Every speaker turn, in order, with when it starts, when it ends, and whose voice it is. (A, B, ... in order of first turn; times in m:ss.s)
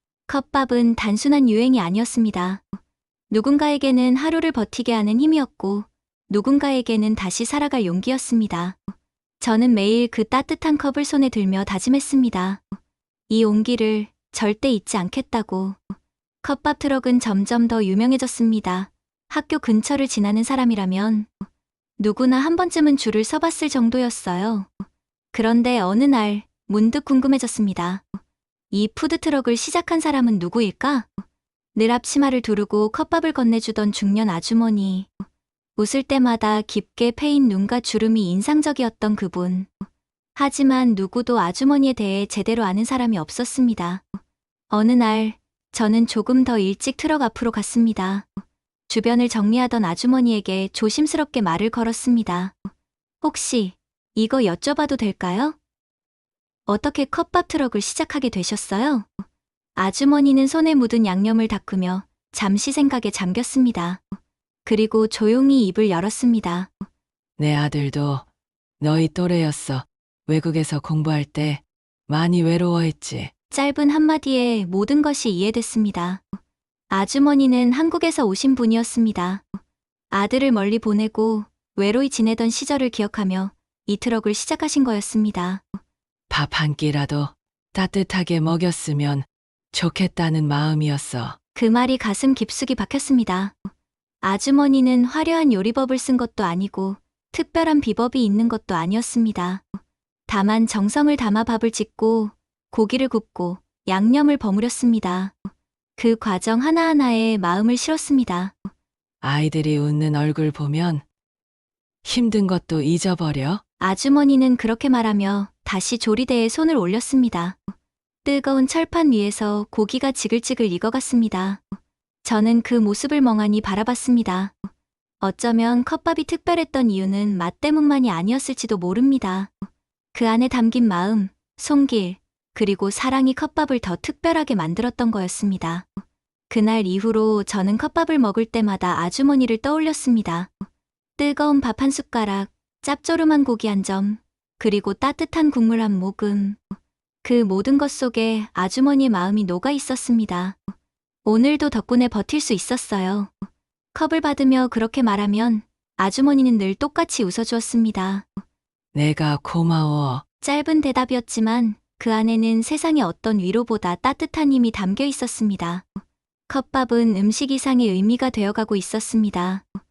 0:00.3-0:02.6 A
0:03.3-0:08.8 A
0:09.4-0:12.6 A
0:13.3-0:15.8 A
0:16.4-0:21.3 A
0:22.0-0:24.7 A
0:25.3-0:28.0 A
0:28.7-0:31.1 A
0:31.8-0:35.1 A
0:35.8-0:39.7 A
0:40.4-0:44.0 A
0:44.7-0:48.2 A
0:48.9-0:52.5 A
0:53.2-0:55.6 A
0:56.7-0:59.1 A
0:59.8-1:04.0 A
1:04.7-1:06.7 A
1:07.4-1:08.2 B
1:08.8-1:13.3 B
1:13.5-1:16.2 A
1:16.9-1:19.4 A
1:20.1-1:25.6 A
1:26.3-1:31.4 B
1:31.6-1:33.5 A
1:34.2-1:39.6 A
1:40.3-1:45.3 A
1:46.0-1:48.5 A
1:49.2-1:51.0 B
1:52.0-1:53.6 B
1:53.8-1:57.6 A
1:58.2-2:01.6 A
2:02.2-2:04.5 A
2:05.2-2:09.5 A
2:10.1-2:15.8 A
2:16.5-2:20.5 A
2:21.2-2:26.6 A
2:27.2-2:30.6 A
2:31.2-2:33.3 A
2:34.0-2:38.2 A
2:38.9-2:40.2 B
2:40.4-2:45.8 A
2:46.5-2:49.6 A